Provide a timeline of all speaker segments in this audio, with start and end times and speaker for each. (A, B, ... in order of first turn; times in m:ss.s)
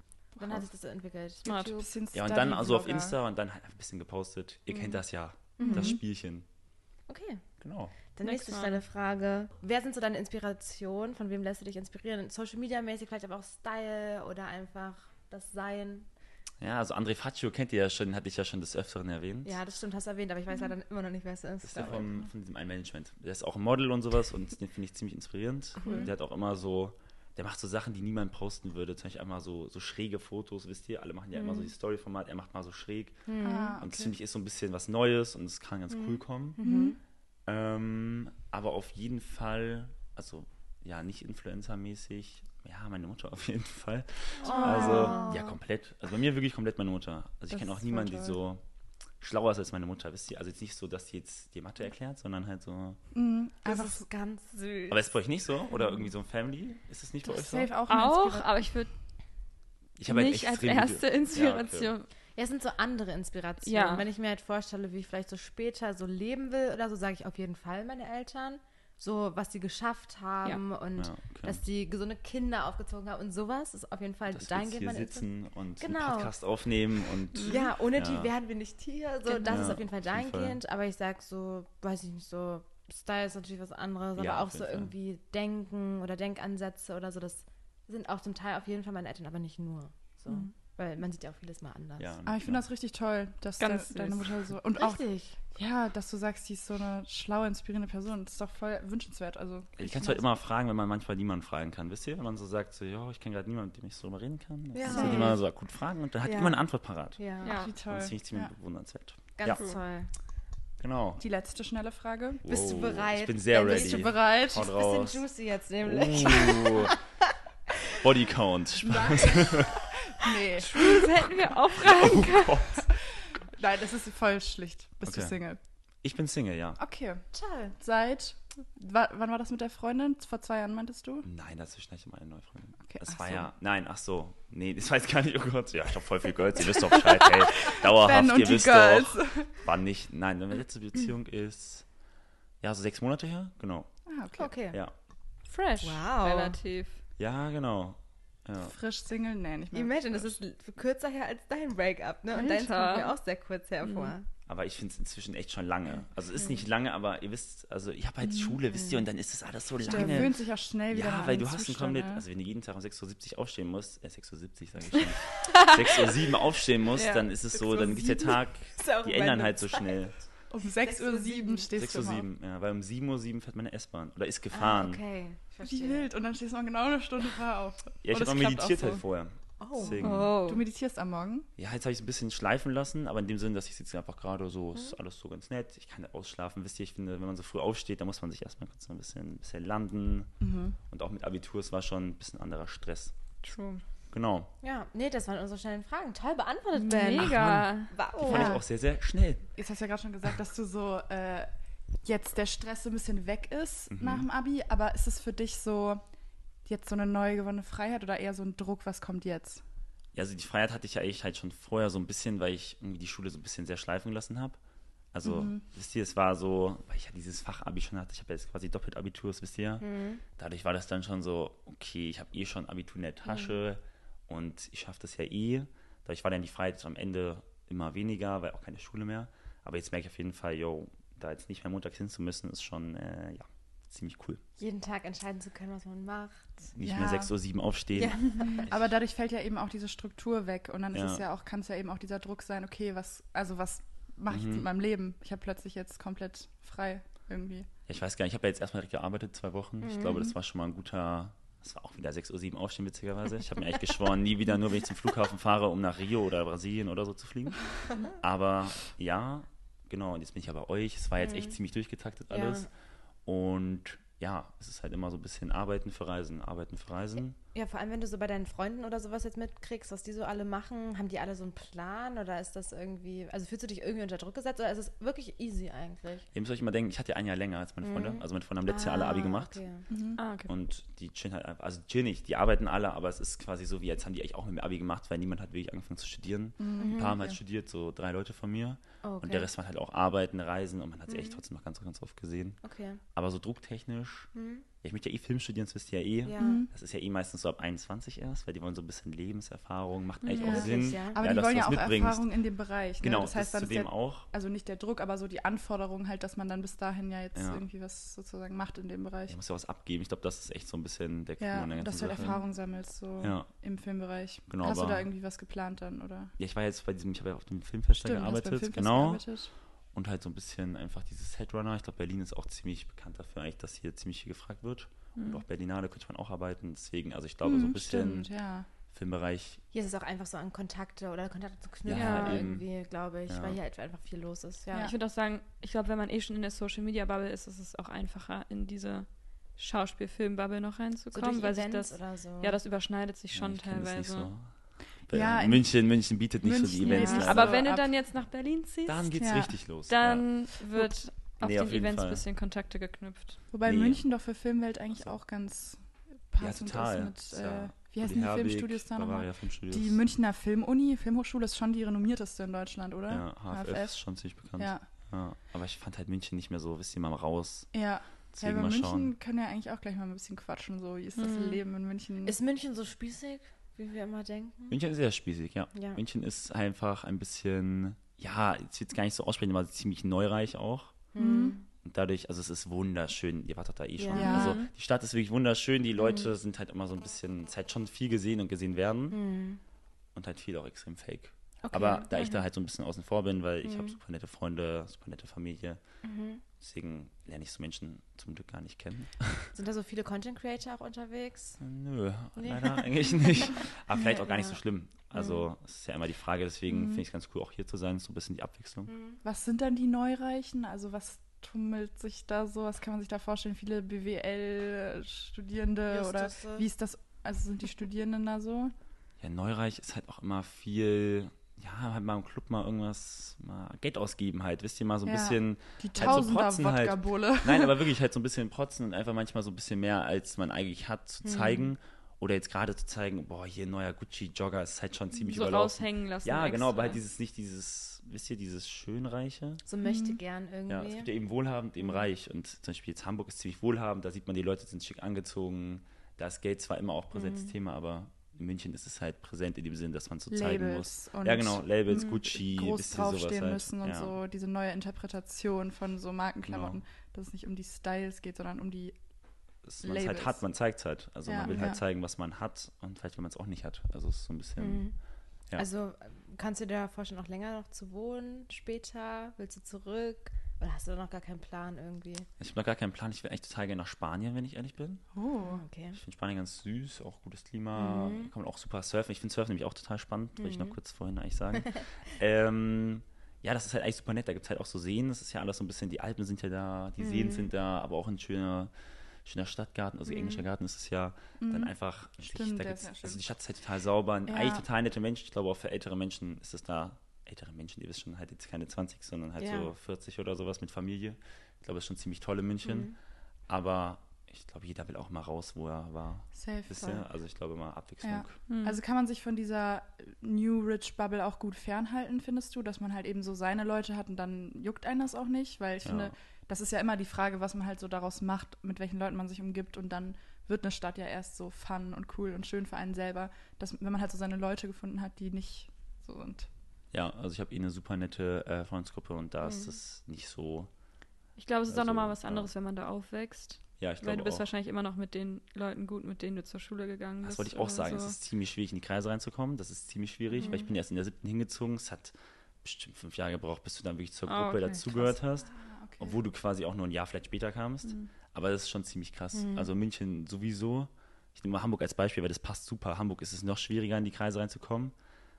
0:00.4-0:01.9 A
0:00.4-0:00.6 B
0:01.4-0:01.9 C
0:01.8-0:03.2 B
0:02.1-0:06.4 D
0:04.7-0:05.0 A
0:05.6-0:05.9 A
0:05.6-0:06.0 B
0:07.1-0:16.1 A
0:07.6-0:07.9 D
0:08.2-0:08.8 C
0:16.6-0:19.6 D
0:19.4-0:22.1 A
0:21.6-0:36.6 D
0:25.8-0:26.1 A
0:31.4-0:31.7 A
0:33.3-0:33.8 A
0:33.4-0:34.2 B
0:35.9-0:37.0 A
0:36.6-0:37.0 B
0:37.5-0:48.6 D
0:44.4-0:45.6 A
0:44.6-0:45.2 B
0:44.7-0:45.1 C
0:47.5-0:48.4 B
0:49.2-0:53.0 D
0:53.1-0:54.1 B
0:53.6-0:55.1 A
0:54.9-0:57.7 D
0:57.2-0:58.5 B
0:57.9-0:58.9 C
1:00.0-1:01.9 D
1:00.1-1:02.1 C
1:02.4-1:16.3 A
1:03.6-1:04.0 C
1:11.0-1:11.6 D
1:14.3-1:18.3 D
1:17.4-1:32.1 A
1:19.3-1:19.6 C
1:19.4-1:20.6 D
1:24.2-1:24.9 D
1:32.0-1:32.6 D
1:32.2-1:40.2 B
1:33.6-1:34.3 C
1:34.8-1:35.4 A
1:39.8-1:47.2 D
1:44.7-1:45.5 A
1:44.8-1:45.3 B
1:46.2-1:46.6 A
1:47.1-1:47.6 A
1:47.4-1:47.7 C
1:47.5-1:48.5 B
1:47.7-1:49.6 D
1:49.4-1:50.1 A
1:49.5-1:49.8 C
1:50.8-1:51.2 D
1:51.2-1:52.4 B
1:52.4-1:55.2 D
1:52.5-1:57.0 A
1:53.6-1:54.7 B
1:55.8-1:57.0 D
1:58.0-1:59.9 D
1:58.9-1:59.3 B
1:59.0-1:59.7 A
2:00.0-2:00.9 B
2:00.7-2:02.6 C
2:00.8-2:02.8 D
2:02.8-2:05.6 B
2:05.0-2:05.4 D
2:06.0-2:06.8 D
2:06.8-2:07.2 B
2:07.3-2:07.8 A
2:07.8-2:11.3 B
2:11.2-2:21.9 D
2:12.9-2:13.5 B
2:16.8-2:19.5 B
2:22.6-2:23.9 D
2:24.1-2:24.5 B
2:24.4-2:24.8 A
2:25.5-2:27.0 C
2:25.8-2:26.6 A
2:27.2-2:28.7 D
2:28.6-2:29.9 B
2:29.7-2:34.3 A
2:32.4-2:33.1 C
2:33.8-2:34.2 C
2:34.5-2:50.2 D
2:38.2-2:38.6 B
2:38.7-2:39.0 A
2:39.8-2:42.2 B
2:45.5-2:46.1 C
2:47.0-2:47.3 C
2:47.6-2:48.4 B
2:48.8-2:50.1 A
2:50.5-2:52.3 B
2:50.8-2:51.7 A
2:51.8-2:55.0 D
2:54.5-2:56.1 A
2:55.6-2:59.0 B
2:58.0-3:00.4 D
2:59.6-3:00.2 A
3:00.0-3:00.6 C
3:00.2-3:01.5 B
3:01.6-3:10.4 D
3:10.4-3:10.8 B
3:10.9-3:13.1 D
3:13.4-3:13.8 C
3:14.1-3:14.5 D
3:14.6-3:18.6 A
3:16.9-3:17.9 C
3:17.2-3:19.5 D
3:18.2-3:18.6 B
3:19.6-3:21.5 B
3:22.0-3:26.0 B
3:23.9-3:24.3 D
3:26.6-3:29.6 B
3:30.1-3:34.6 D
3:35.1-3:54.4 D
3:35.2-3:35.6 B
3:39.8-3:40.2 A
3:54.6-3:56.6 A
3:56.7-3:58.9 D
3:56.8-3:57.3 B
3:58.0-3:58.7 A
3:58.4-4:07.7 B
4:00.9-4:01.2 D
4:04.3-4:04.6 D
4:07.9-4:22.7 D
4:09.8-4:10.3 A
4:21.2-4:21.5 A
4:22.3-4:22.7 A
4:23.2-4:27.4 D
4:27.5-4:36.3 A
4:36.3-4:39.6 D
4:37.8-4:39.9 A
4:39.9-4:40.2 B
4:40.2-4:40.5 C
4:40.5-4:52.6 D
4:46.6-4:47.0 B
4:46.8-4:47.4 A
4:49.0-4:49.5 A
4:51.1-4:51.4 A
4:52.6-4:53.0 A
4:53.1-5:02.3 D
4:54.3-4:54.6 A
4:56.2-4:56.6 A
4:56.4-4:56.7 B
5:00.2-5:00.7 C
5:00.4-5:01.2 A
5:00.4-5:09.4 B
5:03.0-5:04.3 D
5:07.4-5:07.6 D
5:09.3-5:12.3 D
5:11.4-5:16.3 B
5:13.2-5:13.5 D
5:14.5-5:15.1 D
5:16.4-5:29.6 D
5:18.0-5:19.5 B
5:25.2-5:25.4 C
5:27.4-5:28.7 B
5:29.7-5:34.9 A
5:31.8-5:32.7 D
5:31.9-5:32.5 C
5:33.3-5:33.6 D
5:34.7-5:44.3 C
5:41.1-5:42.6 A
5:43.3-5:47.6 D
5:45.1-5:47.9 B
5:46.8-5:53.5 C
5:48.9-5:50.3 D
5:49.2-5:49.6 B
5:51.3-5:52.2 D
5:53.5-6:04.9 B
5:53.6-5:54.0 D
5:56.4-6:00.0 D
6:03.1-6:09.1 D
6:07.7-6:12.4 B
6:11.2-6:11.6 C
6:12.2-6:14.8 A
6:14.7-6:21.0 D
6:15.7-6:16.0 A
6:21.1-6:21.6 A
6:21.2-6:21.6 B
6:21.8-6:29.2 D
6:24.0-6:24.4 A
6:24.1-6:24.6 B
6:24.2-6:24.7 C
6:26.0-6:26.3 A
6:29.1-6:29.6 A
6:30.1-6:35.8 D
6:31.6-6:32.4 A
6:33.6-6:34.0 A
6:36.0-6:36.4 A
6:36.4-6:39.5 D
6:39.5-6:41.6 A
6:41.6-6:48.9 D
6:42.4-6:44.6 A
6:45.1-6:45.5 A
6:48.9-6:49.2 A
6:49.2-6:58.7 B
6:55.9-6:56.7 A
6:59.2-7:19.6 D
7:05.0-7:07.8 B
7:11.2-7:11.7 A
7:15.3-7:17.0 C
7:19.6-7:21.1 A
7:19.8-7:20.2 B
7:20.7-7:34.1 D
7:27.1-7:27.5 A
7:30.3-7:39.0 B
7:31.9-7:32.2 C
7:36.5-7:36.8 D
7:39.6-7:45.7 D
7:39.8-7:40.6 B
7:41.2-7:41.8 B
7:44.6-7:52.3 A
7:52.4-7:55.1 D
7:55.1-7:55.6 B
7:55.4-7:56.0 A
7:55.9-8:28.4 D
7:57.8-7:58.3 A
8:00.4-8:00.8 A
8:07.0-8:07.5 A
8:10.1-8:10.4 A
8:11.4-8:13.2 B
8:14.3-8:14.6 B
8:19.4-8:19.7 A
8:22.6-8:23.0 A
8:26.4-8:26.8 B
8:26.8-8:27.0 A
8:28.0-8:46.5 B
8:28.5-8:28.8 C
8:35.8-8:36.1 D
8:46.9-8:50.7 D
8:49.4-8:49.8 A
8:51.4-8:58.2 C
8:51.7-8:52.5 D
8:53.8-8:54.5 D
8:57.2-9:15.0 D
9:00.4-9:00.7 A
9:04.3-9:04.8 C
9:04.7-9:05.1 A
9:05.5-9:06.2 B
9:07.8-9:08.1 C
9:09.3-9:09.7 A